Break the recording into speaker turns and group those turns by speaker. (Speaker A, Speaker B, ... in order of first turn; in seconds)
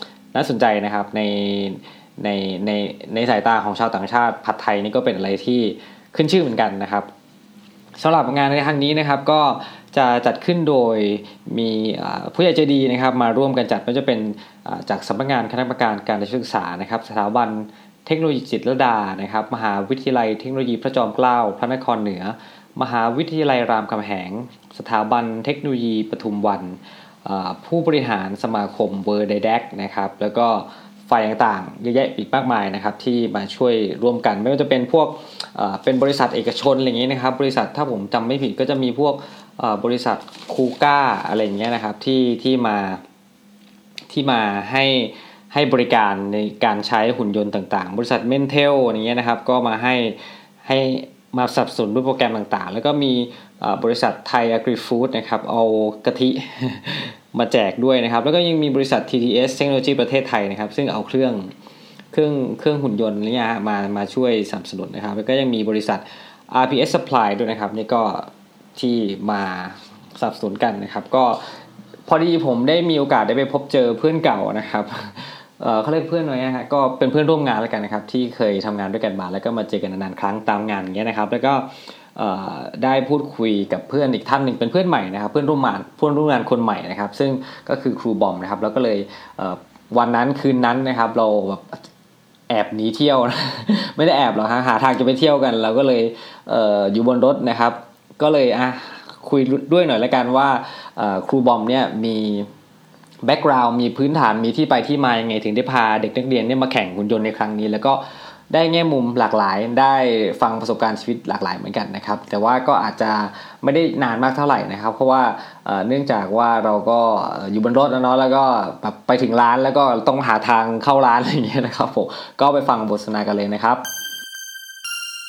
Speaker A: 0.3-7.1, 8.0-43.0, 44.1-61.5, 62.1-71.4, 72.1-91.8, 92.5-102.5, 103.2-123.9